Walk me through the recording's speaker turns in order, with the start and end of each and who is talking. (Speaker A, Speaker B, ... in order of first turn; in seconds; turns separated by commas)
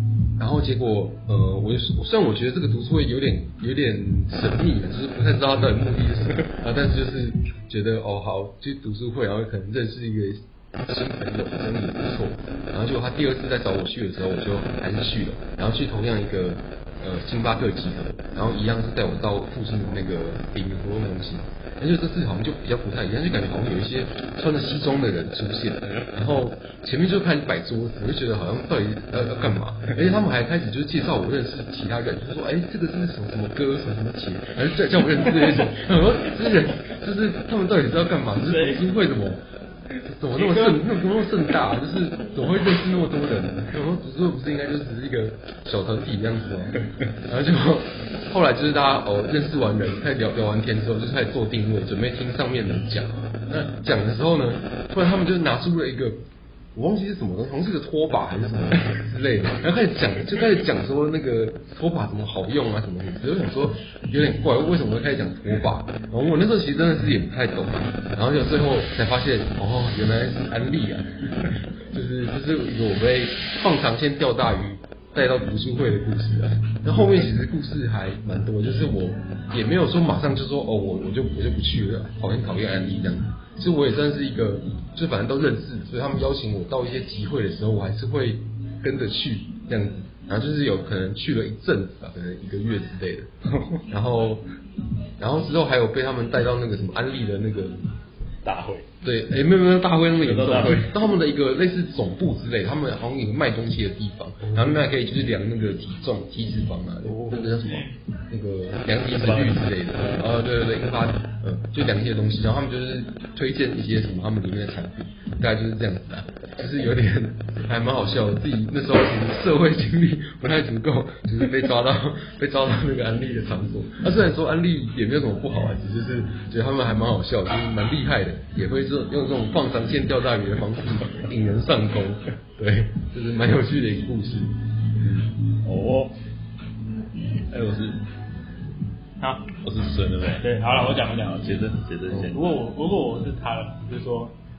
Speaker A: 0.4-39.4, Speaker B: 38.5-38.8, Speaker A: 40.0-56.2, Speaker B: 40.4-40.9, Speaker A: 56.7-71.2, Speaker A: 71.8-93.3, Speaker A: 93.9-94.5, Speaker A: 95.2-97.9, Speaker C: 98.4-98.9, Speaker A: 99.0-134.6, Speaker C: 100.2-101.0, Speaker C: 104.4-104.8, Speaker C: 107.0-107.6, Speaker B: 107.6-108.0, Speaker C: 109.1-110.2, Speaker C: 135.0-136.1, Speaker C: 137.5-138.0, Speaker B: 139.2-139.5, Speaker C: 139.6-140.5, Speaker B: 140.3-141.5, Speaker C: 141.1-142.4, Speaker B: 142.1-144.3